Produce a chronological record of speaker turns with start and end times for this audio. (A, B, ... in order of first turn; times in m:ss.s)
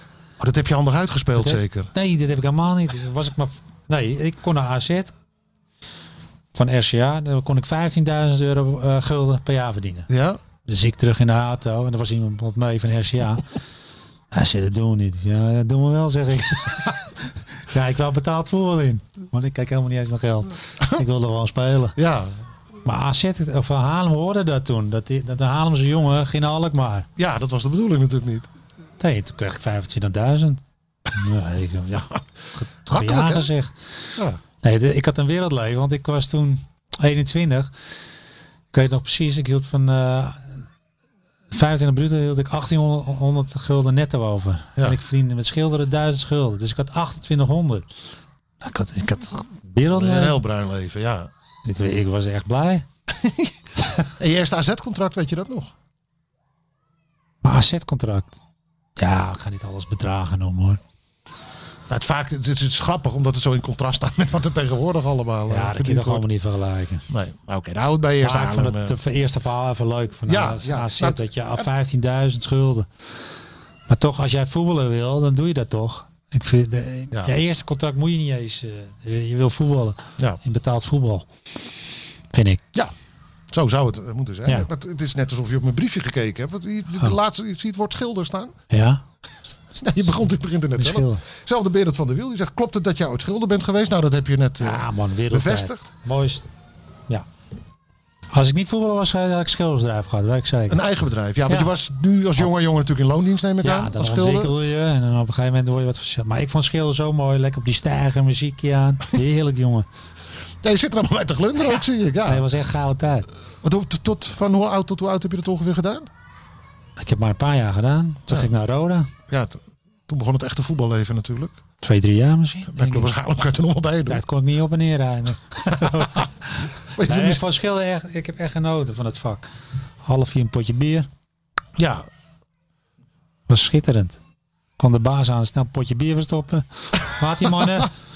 0:00.4-0:01.9 A
0:01.4-0:05.1 B
0:06.5-0:10.1 B
0:10.1-0:10.4 A
0:10.6-0:13.4 B
0:14.3-0:22.0 B
0:22.0-0:22.4 A
0:22.8-0:27.1 B
0:27.2-0:28.5 A
0:29.0-0:33.7 B
0:32.9-0:33.5 A
0:34.2-0:34.4 A
0:34.6-0:37.7 B
0:38.7-0:40.6 B
0:41.5-0:47.9 B
0:48.6-0:50.4 B
0:49.9-0:51.3 A
0:51.6-0:52.8 B
0:53.1-0:53.5 A
0:54.2-0:55.7 A
0:57.4-0:58.4 B
0:59.0-1:00.8 B
1:01.9-1:06.2 A
1:05.5-1:07.1 B
1:07.1-1:09.0 A
1:08.2-1:12.9 B
1:10.2-1:11.7 A
1:13.9-1:21.3 B
1:22.3-1:22.6 B
1:23.5-1:28.5 A
1:28.7-1:29.0 B
1:29.8-1:35.9 A
1:30.8-1:31.2 B
1:34.6-1:36.4 B
1:38.3-1:40.8 B
1:40.7-1:44.5 A
1:43.6-1:49.8 B
1:50.6-1:52.5 A
1:52.2-1:53.3 B
1:53.6-1:56.1 A
1:57.0-1:59.1 B
1:59.3-2:01.6 A
2:01.8-2:03.1 B
2:02.7-2:04.2 A
2:04.1-2:09.5 B
2:06.9-2:07.4 A
2:10.0-2:11.1 B
2:11.8-2:12.0 A
2:13.5-2:14.2 B
2:14.8-2:17.9 B